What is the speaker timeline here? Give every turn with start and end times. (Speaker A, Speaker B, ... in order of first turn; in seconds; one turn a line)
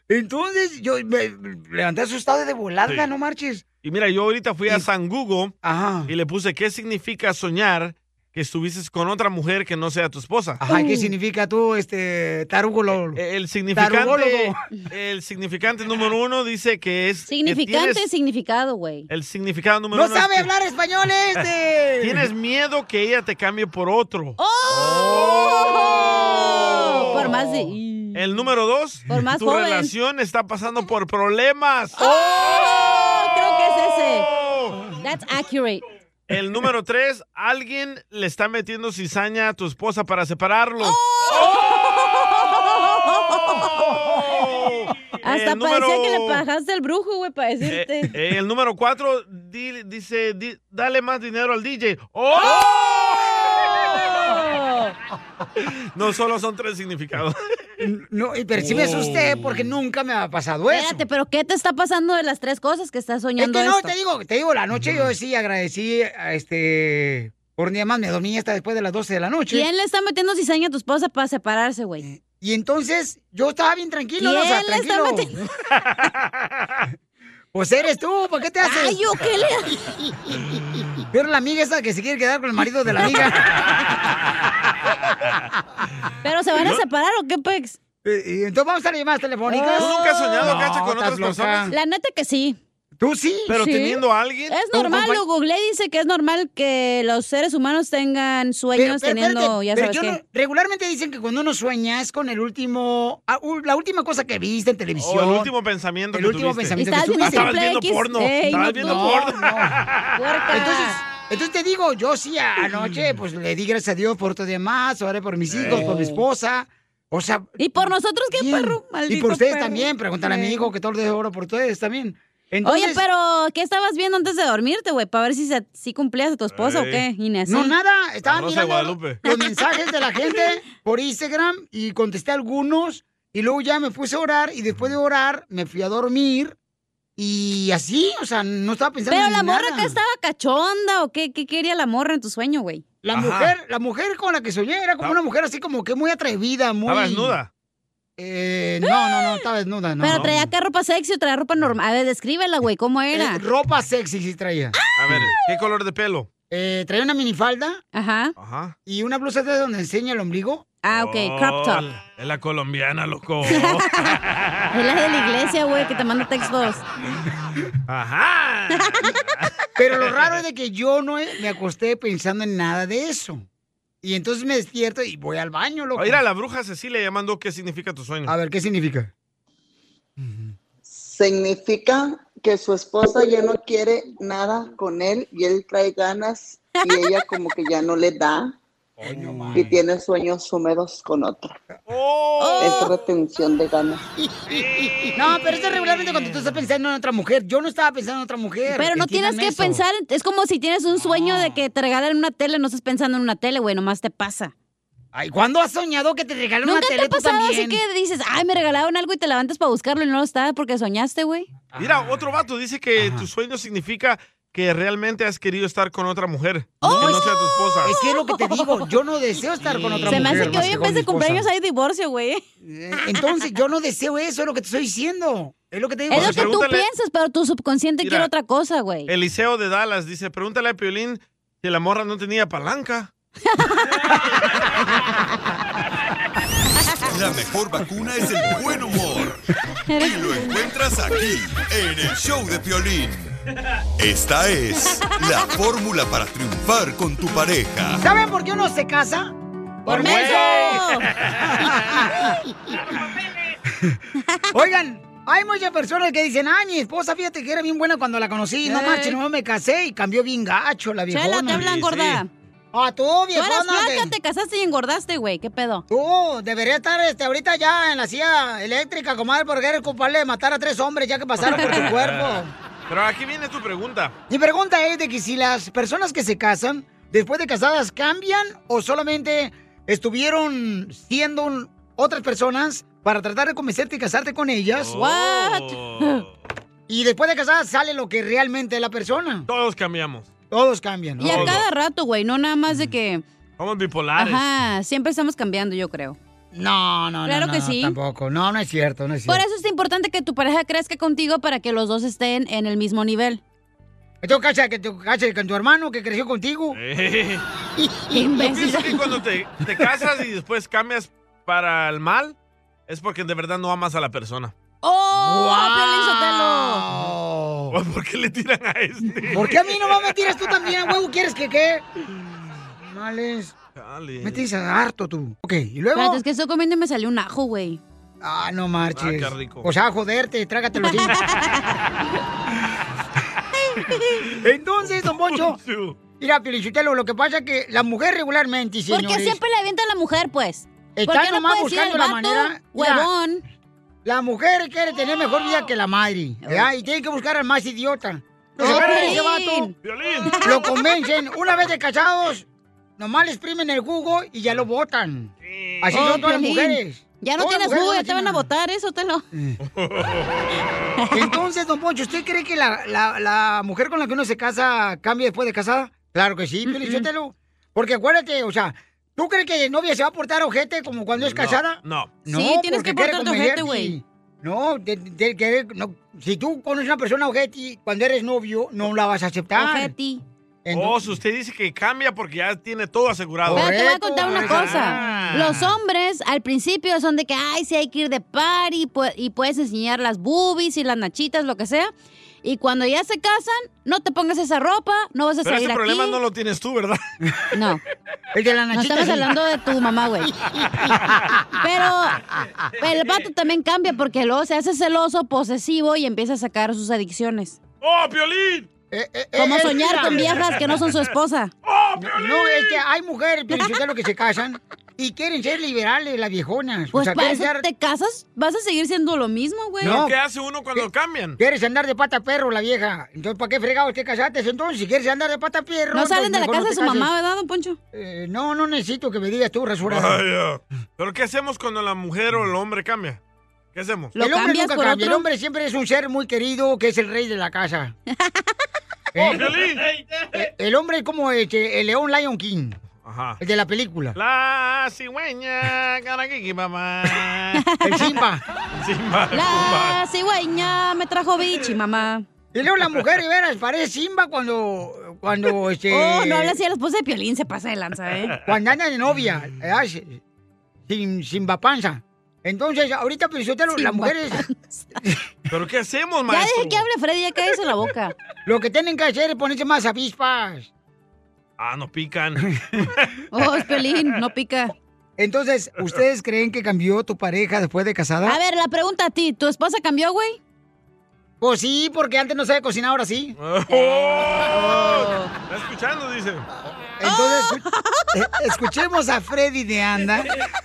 Speaker A: 0.1-3.6
Speaker B: 3.8-5.5
Speaker A: 5.6-6.1
Speaker B: 6.1-10.6
Speaker A: 10.6-13.2
Speaker C: 10.7-11.1
Speaker B: 13.2-18.0
Speaker A: 13.7-14.6
Speaker C: 17.3-19.1
Speaker B: 19.1-20.5
Speaker A: 19.9-22.3
Speaker B: 22.0-25.6
Speaker C: 24.4-28.2
Speaker A: 24.8-25.5
Speaker B: 26.5-27.3
Speaker A: 26.8-27.2
Speaker B: 28.1-32.0
Speaker C: 29.1-29.9
Speaker C: 32.0-34.3
Speaker B: 34.1-34.9
Speaker C: 35.0-35.8
Speaker B: 36.3-41.5
Speaker C: 40.8-43.7
Speaker B: 43.5-46.4
Speaker C: 45.2-48.1
Speaker B: 47.7-53.7
Speaker C: 52.4-52.7
Speaker C: 53.7-55.0
Speaker B: 55.9-57.4
Speaker A: 57.8-61.0
Speaker B: 58.6-59.6
Speaker C: 60.7-63.9
Speaker A: 63.4-69.7
Speaker C: 69.5-72.0
Speaker A: 72.0-75.3
Speaker C: 74.2-75.3
Speaker A: 77.5-79.0
Speaker C: 78.6-79.8
Speaker A: 81.1-83.4
Speaker C: 86.2-87.8
Speaker A: 88.0-91.8
Speaker C: 89.5-90.5
Speaker B: 89.8-91.7
Speaker C: 91.7-92.6
Speaker A: 93.0-93.5
Speaker B: 93.5-94.6
Speaker C: 93.5-100.2
Speaker A: 94.7-95.2
Speaker A: 98.8-105.5
Speaker B: 105.0-110.2
Speaker A: 106.1-107.5
Speaker C: 106.8-109.2
Speaker A: 108.5-109.8
Speaker C: 110.2-111.0
Speaker A: 110.5-123.0
Speaker B: 115.5-115.8
Speaker C: 115.7-116.2
Speaker C: 117.6-120.7
Speaker C: 122.6-127.7
Speaker B: 126.5-127.0
Speaker A: 127.5-136.6
Speaker B: 128.2-129.2
Speaker C: 129.3-129.6
Speaker A: 137.2-140.0
Speaker C: 139.1-142.8
Speaker A: 143.0-147.4
Speaker B: 143.1-143.6
Speaker B: 146.9-147.5
Speaker A: 148.2-150.3
Speaker C: 150.0-153.4
Speaker B: 150.1-150.3
Speaker A: 153.1-154.8
Speaker B: 154.9-156.3
Speaker A: 156.5-157.8
Speaker C: 157.9-158.3
Speaker B: 158.4-158.8
Speaker A: 158.9-160.7
Speaker C: 160.8-161.8
Speaker B: 160.9-164.5
Speaker C: 163.5-164.2
Speaker C: 164.7-166.8
Speaker B: 167.9-170.4
Speaker A: 169.8-173.4
Speaker A: 174.0-176.2
Speaker B: 176.0-178.3
Speaker A: 178.3-179.1
Speaker A: 180.2-180.5
Speaker D: 180.9-188.6
Speaker C: 186.8-187.1
Speaker B: 189.0-189.7
Speaker A: 189.0-189.7
Speaker D: 189.5-191.6
Speaker B: 191.9-192.9
Speaker C: 192.4-192.9
Speaker D: 192.6-194.1
Speaker A: 195.1-199.8
Speaker B: 196.1-196.4
Speaker C: 198.8-204.5
Speaker A: 201.1-201.6
Speaker A: 205.1-207.8
Speaker C: 206.6-211.5
Speaker A: 211.7-212.2
Speaker B: 211.8-217.9
Speaker A: 213.0-213.3
Speaker C: 216.8-218.8
Speaker A: 216.8-217.3
Speaker A: 217.8-221.5
Speaker B: 219.6-220.7
Speaker C: 220.1-222.4
Speaker A: 222.6-226.5
Speaker C: 226.1-229.1
Speaker B: 226.1-226.8
Speaker B: 228.0-228.3
Speaker B: 229.1-233.1
Speaker C: 233.5-234.1
Speaker E: 237.1-239.4
Speaker C: 239.9-241.2
Speaker E: 240.0-243.3
Speaker E: 244.0-248.0
Speaker A: 247.9-250.8
Speaker C: 249.9-251.1
Speaker B: 249.9-251.9
Speaker A: 251.6-252.3
Speaker A: 253.7-254.0
Speaker A: 254.5-261.7
Speaker C: 258.6-259.2
Speaker C: 261.1-262.3
Speaker B: 261.5-262.2
Speaker A: 262.7-264.1
Speaker C: 263.4-265.8
Speaker A: 265.9-272.5
Speaker C: 271.4-271.8
Speaker B: 271.5-274.1
Speaker A: 274.3-284.9
Speaker B: 284.8-286.3
Speaker C: 284.9-286.2
Speaker A: 286.9-289.5
Speaker B: 289.5-290.3
Speaker A: 290.5-291.6
Speaker C: 291.2-293.2
Speaker B: 291.2-291.7
Speaker B: 293.6-294.4
Speaker C: 294.2-296.2
Speaker A: 296.5-299.4
Speaker C: 297.3-298.0
Speaker C: 299.3-303.4
Speaker A: 304.2-306.8
Speaker B: 306.7-307.4
Speaker A: 307.8-308.2
Speaker C: 308.1-309.0
Speaker B: 308.4-312.4
Speaker B: 312.9-314.5
Speaker C: 314.8-316.9
Speaker A: 315.1-317.8
Speaker B: 317.7-320.1
Speaker A: 319.3-321.9
Speaker A: 322.8-323.5
Speaker B: 323.8-324.4
Speaker A: 324.2-326.2
Speaker C: 325.9-327.8
Speaker A: 328.2-331.1
Speaker B: 328.9-329.7
Speaker C: 330.8-331.8
Speaker C: 333.8-334.2
Speaker A: 334.4-335.6
Speaker B: 335.2-336.0
Speaker A: 336.2-339.4
Speaker C: 338.9-343.4
Speaker A: 341.0-343.1
Speaker A: 344.1-349.7
Speaker C: 348.6-349.7
Speaker B: 348.6-349.2
Speaker B: 349.8-350.5
Speaker C: 350.3-350.8
Speaker A: 350.4-352.5
Speaker A: 353.0-358.5
Speaker B: 355.5-356.0
Speaker C: 355.9-359.2
Speaker A: 359.3-359.6
Speaker B: 359.7-360.5
Speaker C: 361.0-361.3
Speaker A: 361.1-379.9
Speaker C: 366.7-367.1
Speaker B: 371.2-372.1
Speaker C: 372.3-373.9
Speaker C: 379.6-380.2
Speaker A: 380.6-381.0
Speaker B: 380.7-385.7
Speaker A: 383.4-385.5
Speaker C: 383.6-396.2
Speaker B: 395.4-397.0
Speaker C: 397.5-397.8
Speaker A: 398.3-399.3
Speaker C: 398.8-400.3
Speaker A: 400.5-401.4
Speaker C: 401.6-402.2
Speaker C: 402.8-407.6
Speaker B: 407.8-408.7
Speaker A: 408.9-410.5
Speaker C: 409.4-411.5
Speaker B: 410.3-410.7
Speaker B: 411.7-412.8
Speaker A: 412.0-417.7
Speaker C: 416.9-420.0
Speaker A: 419.8-420.2
Speaker B: 419.8-421.4
Speaker A: 421.4-427.1
Speaker C: 425.9-427.8
Speaker A: 427.9-430.2
Speaker B: 429.9-433.2
Speaker B: 433.7-434.1
Speaker C: 434.2-435.2
Speaker A: 434.2-437.9
Speaker A: 439.1-439.6
Speaker B: 439.2-440.3
Speaker A: 440.3-442.8
Speaker B: 443.0-443.4
Speaker A: 443.4-444.2
Speaker B: 444.1-447.6
Speaker C: 447.7-448.1
Speaker A: 447.8-448.4
Speaker B: 448.7-450.0
Speaker C: 449.3-452.3
Speaker A: 452.5-456.6
Speaker C: 455.9-458.4
Speaker A: 458.4-460.2
Speaker A: 460.9-464.4
Speaker C: 463.8-464.9
Speaker B: 465.5-466.9
Speaker C: 466.3-468.1
Speaker A: 468.5-470.7
Speaker B: 471.6-473.1
Speaker C: 473.3-474.7
Speaker A: 475.2-478.4
Speaker C: 478.3-480.4
Speaker A: 481.4-483.4
Speaker B: 483.4-486.5
Speaker C: 483.7-485.3
Speaker A: 486.9-490.3
Speaker C: 487.1-488.0